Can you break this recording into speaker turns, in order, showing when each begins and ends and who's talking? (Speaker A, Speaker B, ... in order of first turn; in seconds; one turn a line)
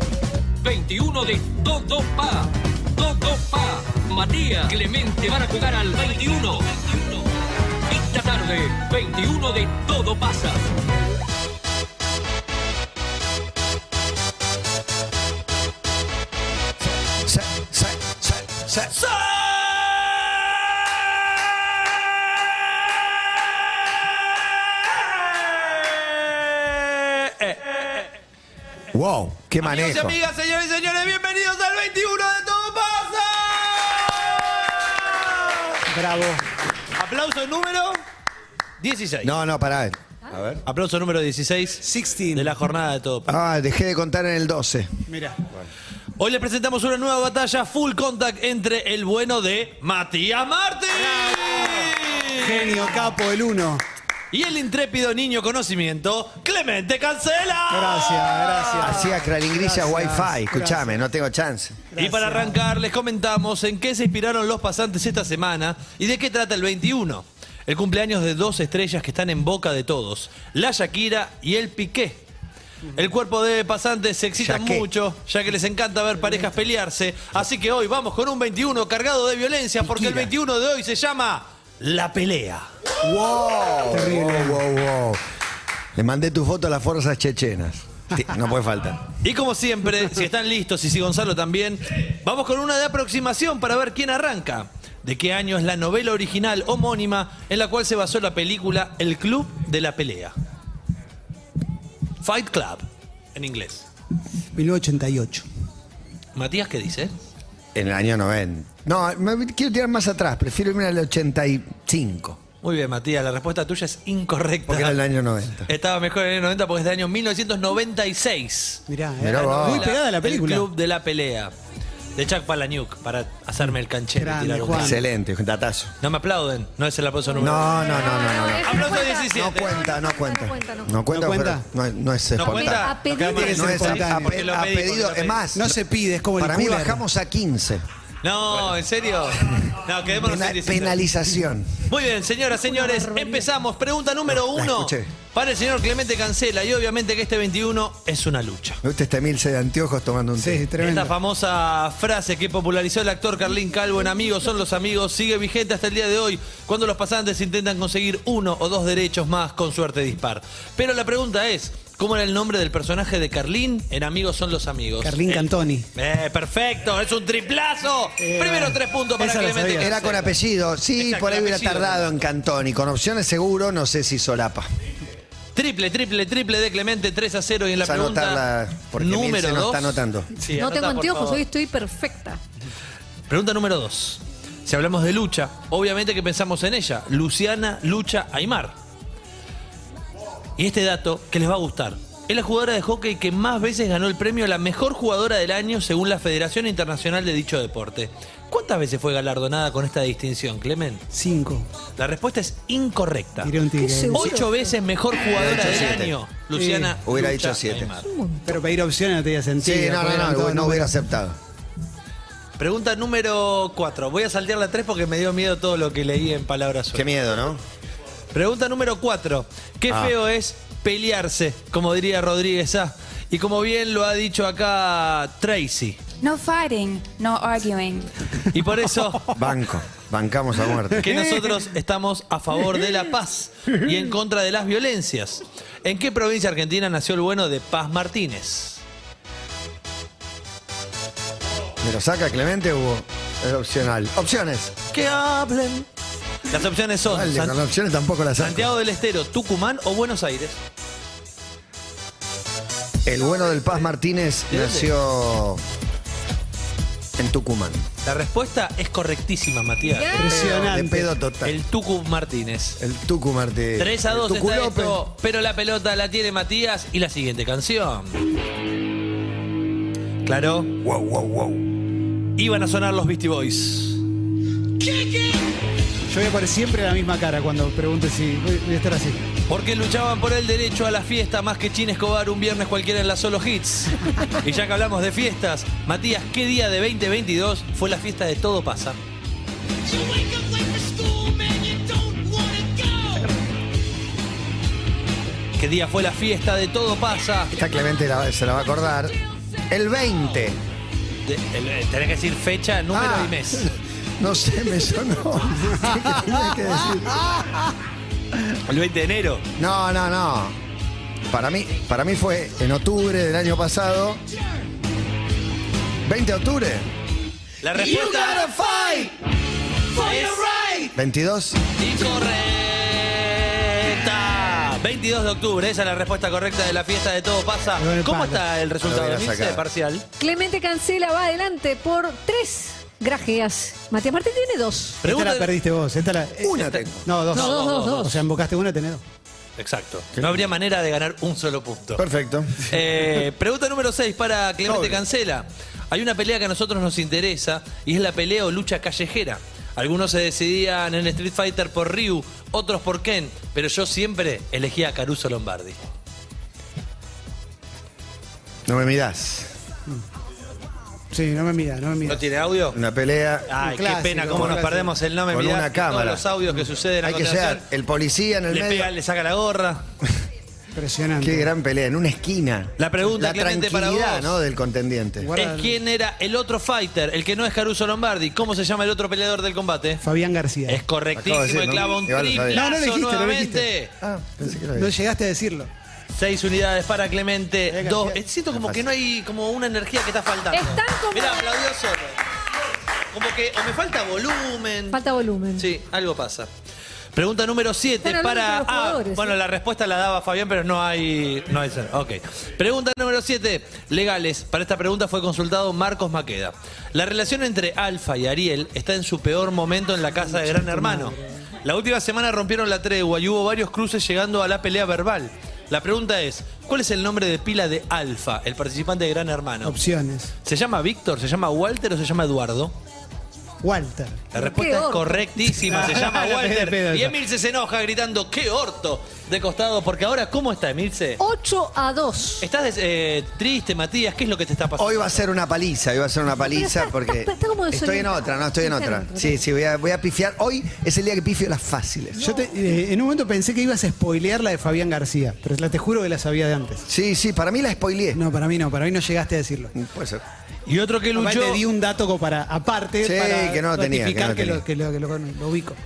Speaker A: 0.6-7.2
Speaker A: 7.9-10.6
Speaker B: 17.0-18.9
Speaker C: 18.8-23.4
Speaker C: 24.2-28.1
Speaker B: 28.9-30.1
Speaker C: 29.6-35.6
Speaker D: 35.9-36.4
Speaker C: 36.9-38.0
Speaker C: 38.8-39.3
Speaker B: 39.2-40.6
Speaker C: 40.6-43.3
Speaker D: 41.8-42.5
Speaker B: 43.3-44.9
Speaker D: 45.1-45.4
Speaker C: 46.2-53.0
Speaker D: 50.9-53.8
Speaker C: 54.3-59.1
Speaker D: 57.7-61.0
Speaker B: 58.8-61.8
Speaker D: 61.9-62.6
Speaker C: 62.0-72.2
Speaker C: 72.9-82.7
Speaker B: 74.4-74.9
Speaker D: 79.8-80.2
Speaker B: 83.0-85.2
Speaker D: 83.9-84.6
Speaker B: 85.9-89.0
Speaker C: 89.2-100.3
Speaker C: 102.2-103.8
Speaker D: 104.5-105.4
Speaker C: 106.3-107.1
Speaker B: 107.7-112.4
Speaker C: 112.6-115.0
Speaker B: 114.7-115.7
Speaker C: 115.6-121.5
Speaker D: 118.9-120.7
Speaker B: 119.2-119.9
Speaker C: 122.2-125.0
Speaker D: 124.1-125.0
Speaker B: 124.7-125.9
Speaker C: 126.0-129.7
Speaker E: 127.4-131.0
Speaker B: 127.4-135.6
Speaker D: 131.1-131.6
Speaker C: 132.3-135.6
Speaker E: 132.4-134.1
Speaker D: 133.2-134.4
Speaker D: 135.5-137.0
Speaker B: 136.4-137.8
Speaker C: 138.2-141.0
Speaker B: 140.2-141.7
Speaker C: 141.8-148.8
Speaker E: 142.6-143.4
Speaker B: 144.3-145.1
Speaker B: 148.8-150.6
Speaker D: 150.4-151.1
Speaker C: 150.8-170.4
Speaker D: 165.0-165.8
Speaker D: 168.2-170.3
Speaker B: 169.8-174.7
Speaker C: 170.9-172.1
Speaker C: 175.5-178.4
Speaker B: 177.8-180.3
Speaker C: 178.9-181.4
Speaker E: 180.6-182.4
Speaker C: 183.3-188.7
Speaker C: 190.6-201.0
Speaker D: 201.1-201.7
Speaker C: 202.0-203.5
Speaker D: 203.4-204.4
Speaker E: 203.7-204.7
Speaker C: 204.1-208.1
Speaker B: 205.3-206.1
Speaker D: 206.5-206.9
Speaker B: 207.0-207.9
Speaker E: 207.9-208.6
Speaker D: 208.4-210.9
Speaker B: 209.6-211.3
Speaker C: 212.6-217.2
Speaker B: 216.9-217.6
Speaker C: 218.3-226.0
Speaker A: 226.2-228.1
Speaker C: 228.5-229.4
Speaker B: 229.3-231.3
Speaker C: 231.0-238.8
Speaker B: 241.8-244.7
Speaker C: 244.9-245.9
Speaker C: 246.5-247.6
Speaker B: 247.1-248.7
Speaker C: 248.3-250.6
Speaker B: 253.1-255.6
Speaker C: 254.5-254.9
Speaker B: 257.2-257.8
Speaker C: 258.0-260.2
Speaker E: 259.9-260.4
Speaker D: 260.1-261.1
Speaker B: 260.2-261.6
Speaker C: 261.4-262.8
Speaker B: 262.8-265.0
Speaker C: 263.8-268.2
Speaker C: 270.2-270.8
Speaker B: 270.8-271.7
Speaker C: 272.4-274.0
Speaker D: 276.1-279.2
Speaker C: 279.5-289.0
Speaker C: 289.9-293.3
Speaker C: 295.6-297.5
Speaker B: 297.5-299.2
Speaker B: 299.7-300.6
Speaker C: 301.2-303.7
Speaker B: 302.9-307.3
Speaker C: 308.6-309.4
Speaker B: 309.6-310.5
Speaker B: 311.3-314.2
Speaker B: 316.0-316.9
Speaker C: 317.6-318.4
Speaker B: 317.7-319.1
Speaker C: 320.0-320.5
Speaker B: 320.8-321.6
Speaker C: 321.8-330.1
Speaker D: 327.7-328.4
Speaker B: 328.8-329.6
Speaker E: 330.2-335.0
Speaker C: 335.0-335.5
Speaker D: 335.1-339.0
Speaker B: 336.4-337.1
Speaker C: 336.6-338.2
Speaker E: 337.4-338.1
Speaker C: 339.6-342.0
Speaker B: 340.1-340.4
Speaker B: 342.0-342.6
Speaker C: 342.6-355.8
Speaker B: 344.6-345.0
Speaker B: 358.7-359.5
Speaker D: 361.1-362.2
Speaker C: 362.1-362.8
Speaker B: 362.7-363.5
Speaker C: 363.5-367.7
Speaker D: 363.6-364.9
Speaker B: 365.3-366.2
Speaker B: 367.0-368.9
Speaker C: 368.5-369.8
Speaker D: 370.7-371.5
Speaker B: 371.2-375.3
Speaker C: 372.8-374.4
Speaker D: 375.2-375.8
Speaker C: 375.4-380.0
Speaker D: 380.0-380.8
Speaker C: 380.7-383.9
Speaker B: 381.1-382.6
Speaker D: 382.5-383.7
Speaker B: 384.0-384.9
Speaker D: 384.5-385.7
Speaker C: 386.1-392.2
Speaker D: 387.7-388.2
Speaker B: 388.5-388.8
Speaker E: 390.5-391.6
Speaker C: 393.1-395.0
Speaker E: 394.9-395.7
Speaker C: 395.5-396.5
Speaker C: 397.1-419.8
Speaker E: 398.0-399.4
Speaker D: 410.1-411.4
Speaker D: 419.6-420.3
Speaker C: 420.4-422.8
Speaker D: 423.6-424.3
Speaker C: 424.3-431.2
Speaker E: 424.4-425.3
Speaker D: 425.4-427.1
Speaker E: 431.2-432.5
Speaker C: 432.4-435.2
Speaker B: 434.8-442.2
Speaker E: 436.4-439.4
Speaker D: 442.2-446.9
Speaker B: 446.9-448.2
Speaker D: 448.1-449.7
Speaker B: 449.7-450.2
Speaker C: 450.7-451.6
Speaker D: 451.1-455.8
Speaker B: 453.0-454.6